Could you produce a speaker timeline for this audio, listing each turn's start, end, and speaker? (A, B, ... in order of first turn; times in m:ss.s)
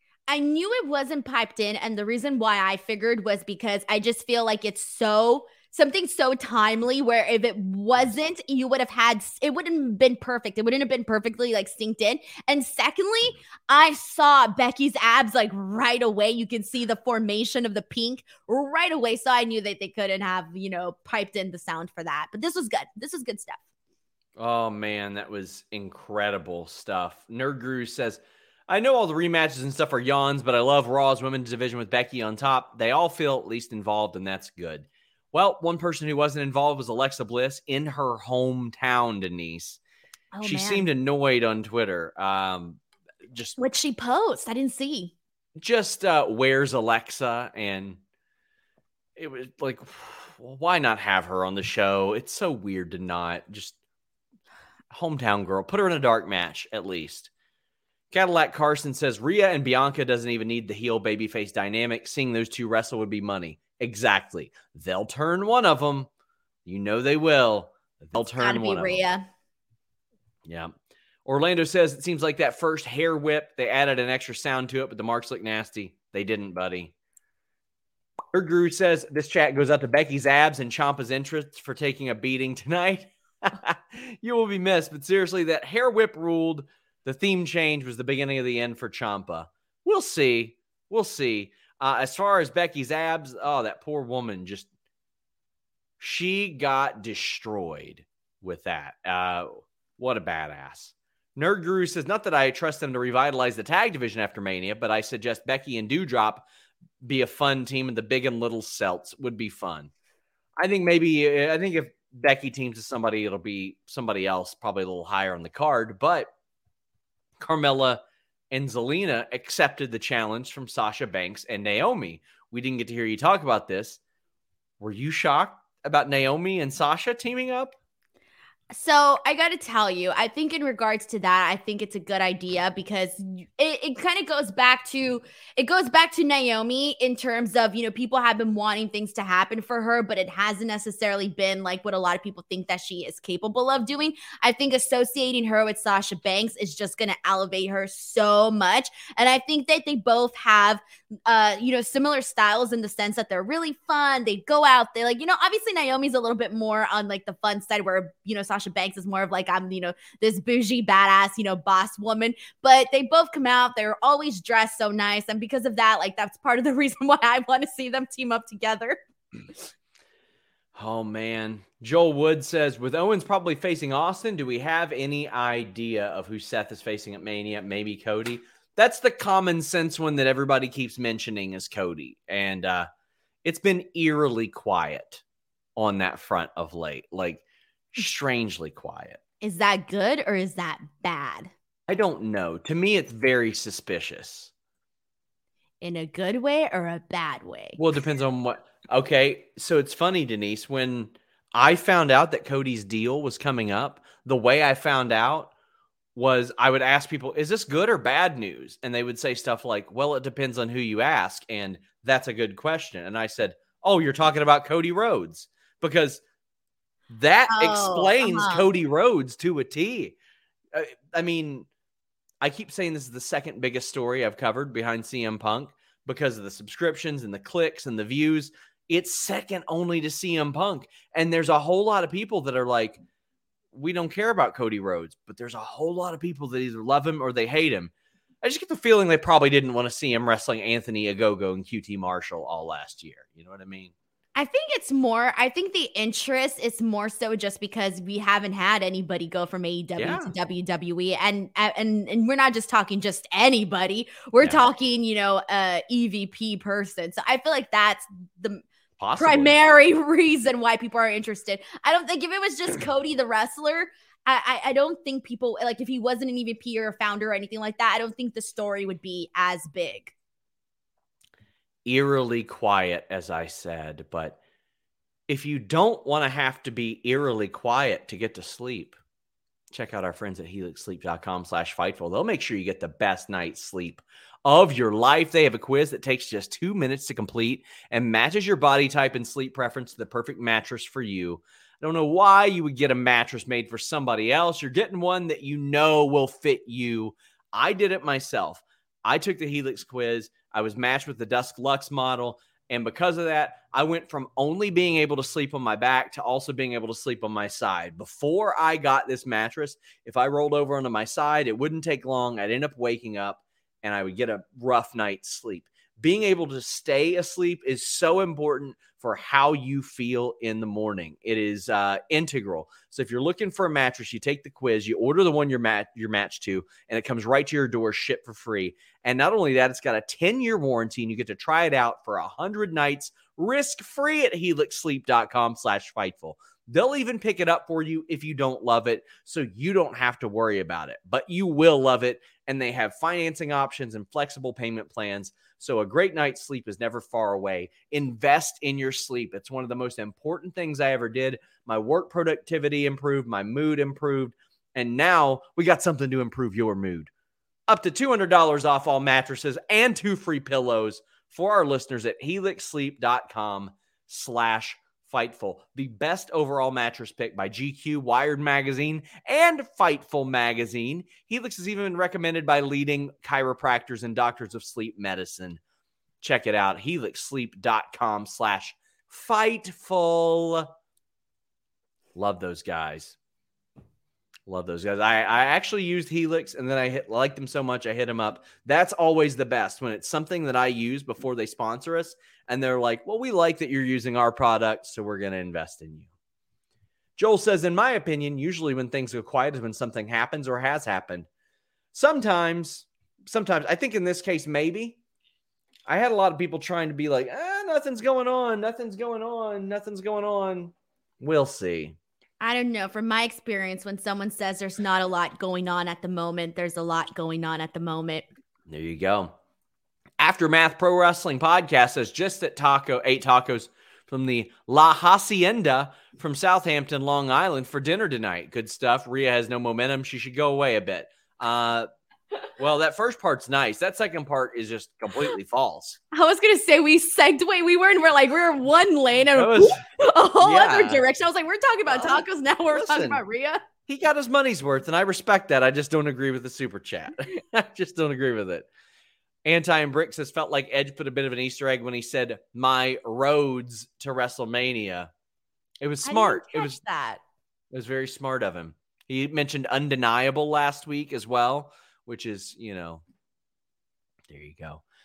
0:00.3-0:23.6 A
0:24.4-0:39.8 B
0:40.3-0:40.8 A
0:40.4-0:42.8 B
0:43.6-0:45.1 A
0:45.6-0:48.0 B
0:49.2-0:53.8 B
0:54.9-0:57.3 B
0:58.1-1:06.1 B
1:06.6-1:09.0 B
1:08.3-1:09.2 A
1:10.4-1:10.7 B
1:11.2-1:16.9 B
1:18.3-1:34.7 B
1:36.0-1:46.4 B
1:47.0-1:49.9 B
1:50.6-1:56.3 B
1:57.4-2:04.0 B
2:04.8-2:07.7 B
2:08.7-2:49.0 A
2:50.7-3:02.9 B
3:03.4-3:05.2 B
3:05.8-3:07.4 B
3:07.9-3:09.2 B
3:09.4-3:11.5 A
3:11.9-3:14.5 B
3:15.8-3:17.8 A
3:17.8-3:25.5 B
3:26.1-3:36.2 B
3:37.1-3:40.2 B
3:37.5-3:38.6 A
3:40.7-3:41.7 B
3:42.4-3:53.0 B
3:53.7-3:57.9 B
3:58.4-4:03.9 B
4:04.3-4:18.6 A
4:10.0-4:10.3 B
4:19.0-4:19.5 B
4:19.2-4:30.1 A
4:31.8-4:34.4 B
4:35.3-4:39.0 B
4:39.7-5:57.1 B
5:57.7-6:15.6 B
6:16.2-6:20.7 B
6:22.1-6:23.2 B
6:24.5-6:36.1 B
6:37.2-6:41.3 B
6:41.9-6:45.0 B
6:45.9-6:52.0 B
6:52.4-6:58.2 A
6:58.7-6:59.3 B
7:00.2-7:11.9 B
7:12.6-7:16.0 B
7:16.1-7:23.6 A
7:19.3-7:19.8 B
7:20.4-7:21.0 B
7:21.9-7:23.2 B
7:23.9-7:28.6 B
7:29.4-7:35.1 B
7:35.8-7:36.8 B
7:36.0-7:37.2 A
7:37.7-7:43.0 B
7:44.3-7:44.8 B